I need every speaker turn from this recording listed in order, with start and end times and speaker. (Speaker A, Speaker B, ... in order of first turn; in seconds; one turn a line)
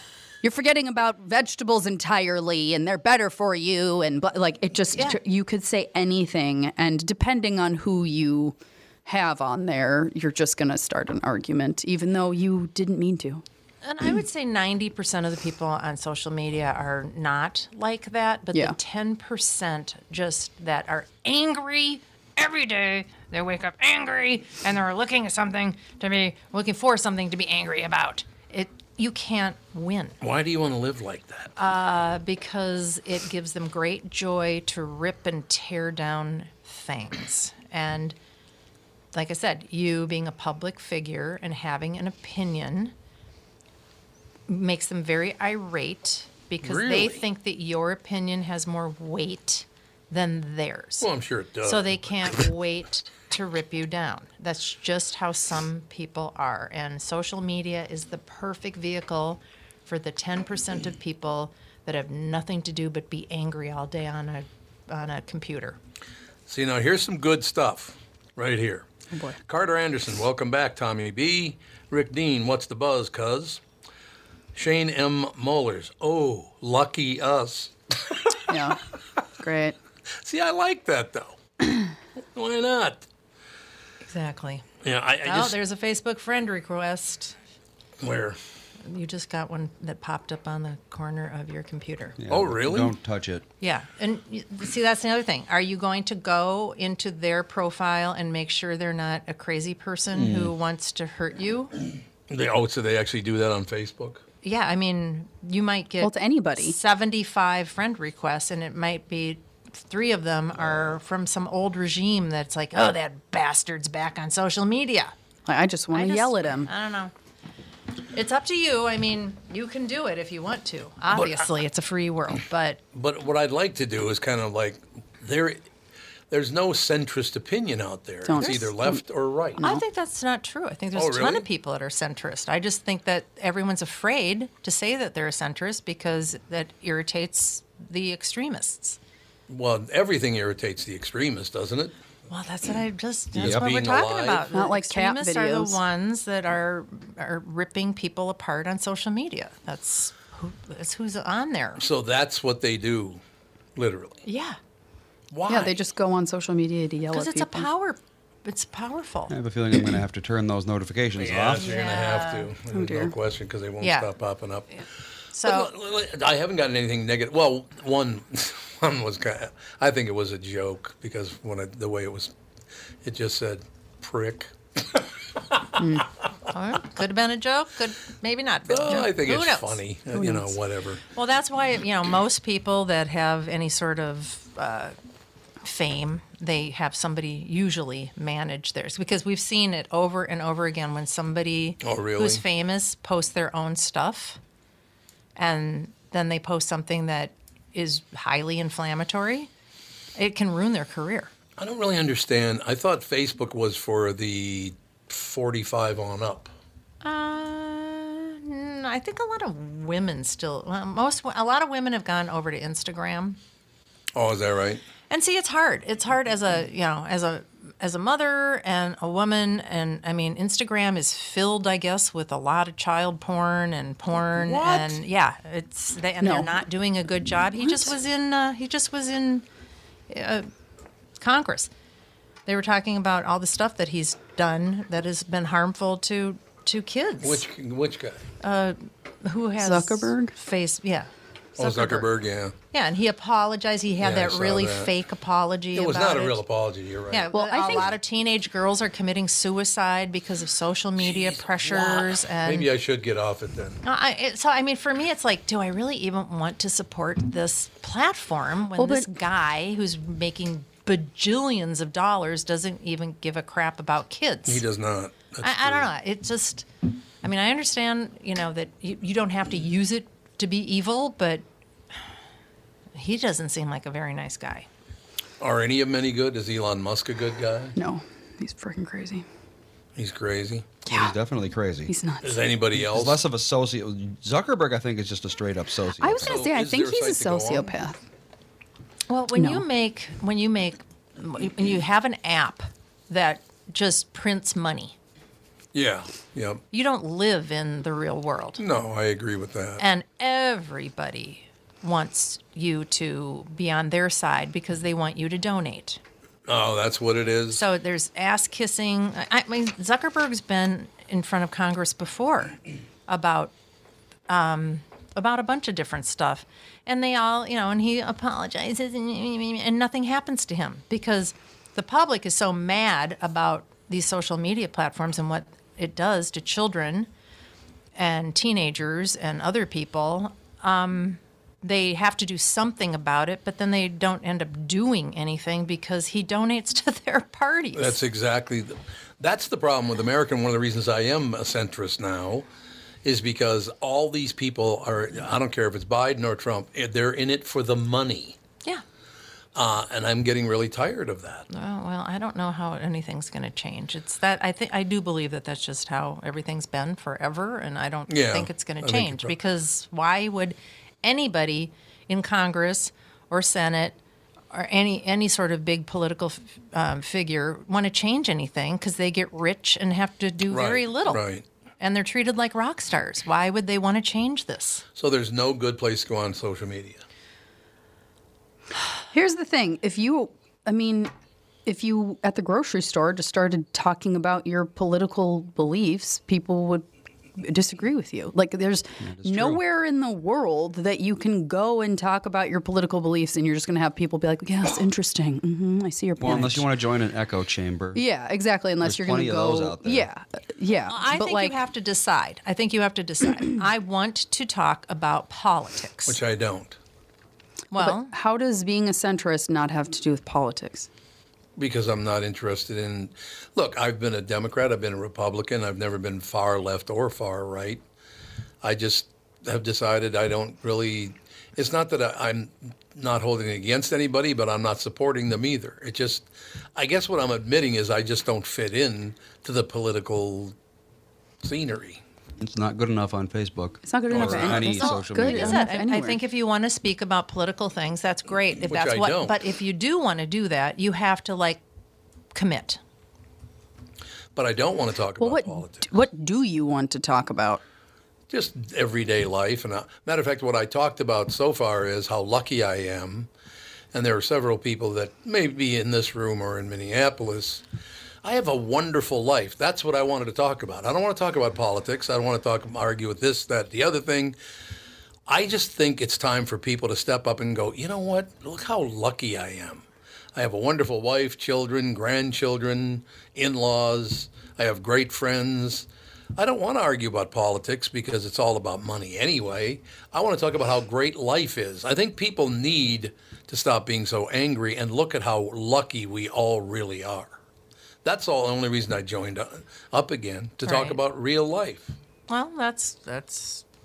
Speaker A: 0.4-13.4
Speaker B: 13.8-30.2
Speaker C: 30.2-31.5
Speaker B: 31.6-38.2
Speaker B: 39.1-42.9
Speaker B: 44.5-51.1
Speaker C: 46.6-47.2
Speaker C: 51.0-52.4
Speaker B: 51.6-65.8
Speaker C: 66.5-68.9
Speaker C: 69.5-73.6
Speaker C: 74.5-78.3
Speaker A: 78.5-78.8
Speaker A: 79.4-79.8
Speaker C: 80.2-81.4
Speaker C: 82.2-83.0
Speaker B: 84.1-84.7
Speaker C: 84.8-85.6
Speaker B: 85.2-87.4
Speaker C: 88.0-88.4
Speaker B: 88.8-92.2
Speaker D: 92.2-93.4
Speaker C: 92.3-92.9
Speaker B: 93.6-101.7
Speaker D: 100.1-100.5
Speaker C: 102.3-104.2
Speaker B: 104.4-115.1
Speaker A: 106.0-106.8
Speaker A: 115.5-116.7
Speaker B: 115.9-117.1
Speaker B: 118.1-122.8
Speaker C: 121.1-121.5
Speaker C: 122.9-125.6
Speaker C: 126.3-129.6
Speaker A: 128.2-129.0
Speaker A: 129.6-129.8
Speaker B: 129.6-139.0
Speaker C: 130.9-131.4
Speaker C: 139.5-141.9
Speaker B: 142.3-151.8
Speaker C: 143.4-144.5
Speaker A: 144.5-145.8
Speaker C: 151.8-153.2
Speaker C: 153.8-154.2
Speaker B: 154.2-154.6
Speaker C: 155.3-155.8
Speaker A: 155.5-157.7
Speaker B: 157.1-159.3
Speaker D: 159.3-161.7
Speaker C: 161.2-164.8
Speaker B: 161.5-162.5
Speaker A: 162.7-163.1
Speaker B: 163.8-164.1
Speaker B: 164.7-165.7
Speaker C: 165.4-172.3
Speaker C: 173.0-175.0
Speaker A: 175.8-176.1
Speaker B: 176.5-179.8
Speaker C: 178.7-181.0
Speaker A: 180.1-180.6
Speaker B: 181.2-184.9
Speaker B: 185.6-194.4
Speaker C: 191.8-192.4
Speaker B: 195.4-199.5
Speaker B: 200.2-201.3
Speaker C: 201.6-206.5
Speaker B: 207.0-213.4
Speaker C: 214.2-214.8
Speaker B: 215.1-229.4
Speaker C: 224.4-224.9
Speaker A: 226.2-226.6
Speaker A: 227.6-227.9
Speaker B: 230.1-230.5
Speaker B: 231.2-231.7
Speaker B: 232.5-237.4
Speaker C: 237.2-238.2
Speaker B: 238.4-242.1
Speaker A: 239.6-240.3
Speaker C: 241.6-242.5
Speaker B: 242.7-246.4
Speaker C: 244.0-244.9
Speaker C: 245.7-247.9
Speaker B: 247.1-252.7
Speaker A: 247.3-247.9
Speaker C: 251.0-253.8
Speaker B: 253.8-264.6
Speaker A: 258.8-259.1
Speaker C: 264.5-265.9
Speaker B: 265.4-266.7
Speaker B: 267.2-271.4
Speaker B: 272.9-274.7
Speaker C: 275.4-277.8
Speaker A: 277.8-279.2
Speaker C: 280.0-280.7
Speaker A: 280.9-281.1
Speaker D: 280.9-281.9
Speaker A: 281.9-282.4
Speaker C: 282.2-283.2
Speaker D: 282.8-286.4
Speaker A: 286.0-288.0
Speaker C: 286.2-287.7
Speaker B: 289.1-294.9
Speaker A: 289.4-289.6
Speaker C: 295.7-296.6
Speaker B: 296.7-298.6
Speaker C: 298.6-299.9
Speaker B: 299.8-306.0
Speaker C: 306.5-307.6
Speaker B: 307.5-313.5
Speaker B: 314.3-327.1
Speaker B: 328.0-338.0
Speaker C: 337.8-342.5
Speaker C: 343.0-348.4
Speaker C: 349.6-351.5
Speaker B: 351.5-364.0
Speaker C: 358.1-359.4
Speaker B: 364.5-371.2
Speaker C: 370.5-371.4
Speaker B: 371.8-374.8
Speaker C: 375.0-377.0
Speaker A: 379.1-381.1
Speaker A: 381.7-386.9
Speaker A: 387.4-396.7
Speaker D: 389.0-389.6
Speaker D: 396.2-398.0
Speaker A: 397.9-401.6
Speaker D: 398.8-400.1
Speaker B: 400.9-406.2
Speaker C: 406.1-406.8
Speaker B: 407.7-408.1
Speaker A: 407.8-410.9
Speaker C: 411.6-417.8
Speaker C: 418.6-430.6
Speaker C: 431.4-432.0
Speaker D: 432.4-435.6
Speaker A: 433.9-436.2
Speaker C: 434.1-434.8
Speaker B: 434.8-441.6
Speaker C: 438.7-439.4
Speaker B: 442.3-442.8
Speaker C: 444.4-445.9
Speaker A: 445.2-447.6
Speaker C: 448.3-453.3
Speaker C: 453.9-457.6
Speaker C: 458.2-464.4
Speaker C: 465.3-469.8
Speaker C: 470.4-487.4
Speaker C: 488.0-491.9
Speaker B: 490.6-491.0
Speaker B: 492.3-493.6